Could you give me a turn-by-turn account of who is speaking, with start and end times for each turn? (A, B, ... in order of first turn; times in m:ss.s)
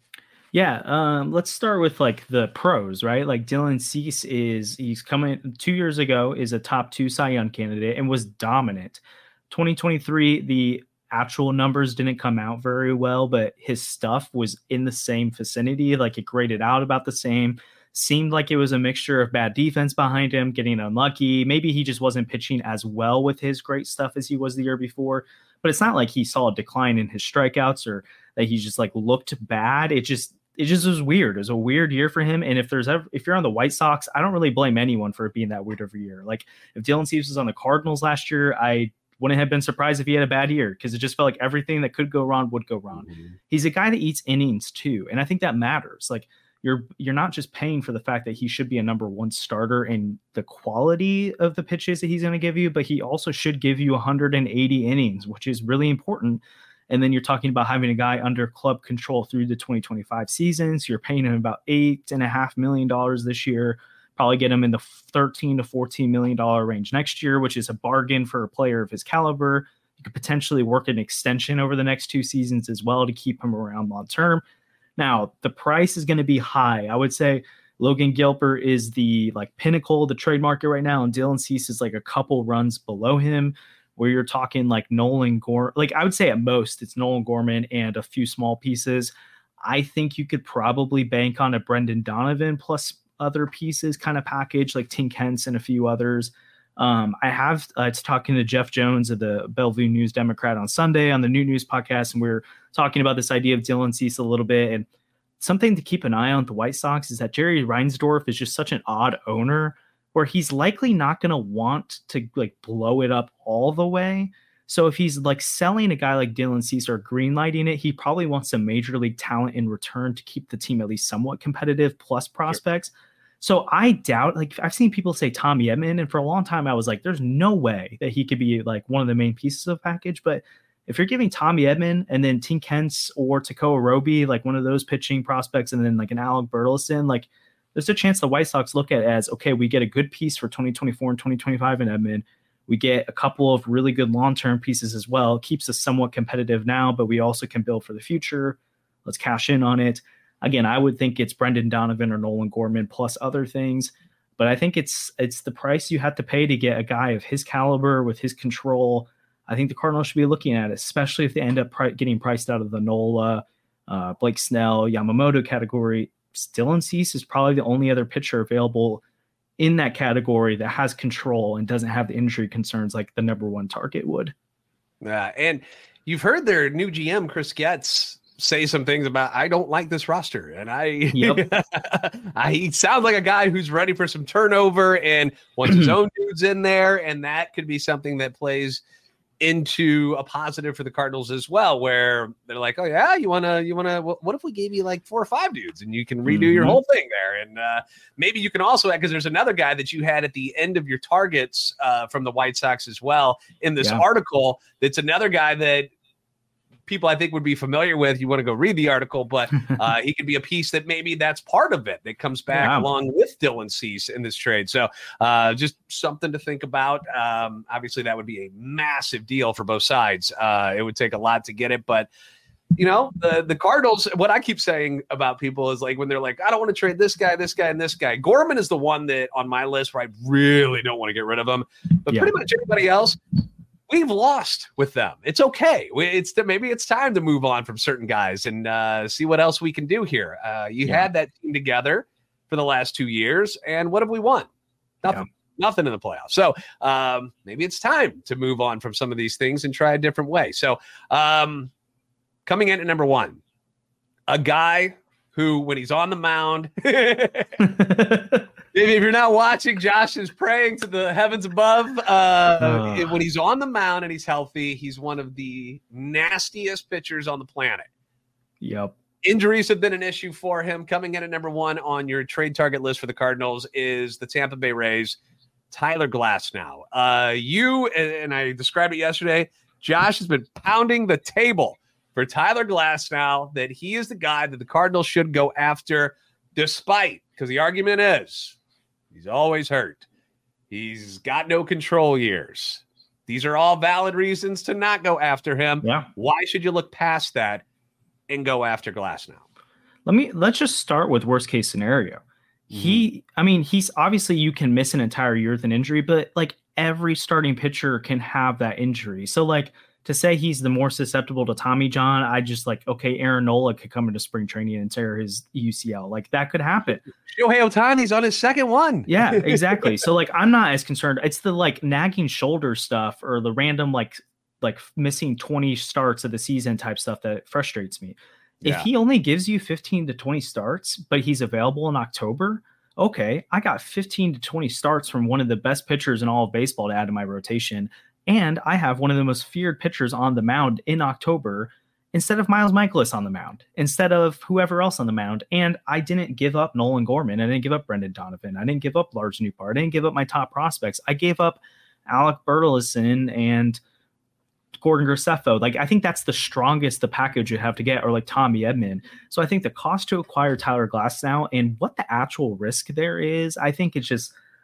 0:00.5-1:14.4 A
0:43.1-0:43.3 B
1:15.0-1:44.9 A
1:45.4-2:49.0 A
2:49.6-2:54.3 A
2:55.0-3:08.8 B
3:01.1-3:01.4 A
3:09.4-3:25.9 B
3:16.2-3:16.8 A
3:26.9-3:42.1 B
3:32.5-3:32.9 A
3:42.8-3:53.2 B
3:53.9-4:04.5 B
4:05.0-4:11.7 B
4:12.4-4:13.4 B
4:14.3-4:17.6 B
4:17.6-4:18.4 A
4:18.7-4:27.9 B
4:22.6-4:23.1 A
4:28.6-4:28.9 A
4:29.2-4:35.2 B
4:35.7-4:48.6 B
4:49.1-4:50.0 B
4:50.7-4:57.6 B
4:55.8-4:56.1 A
4:58.3-4:59.4 B
5:00.0-5:17.0 A
5:02.7-5:03.0 B
5:17.2-5:20.0 B
5:19.1-5:53.8 A
5:28.6-5:28.9 B
5:54.8-6:04.3 A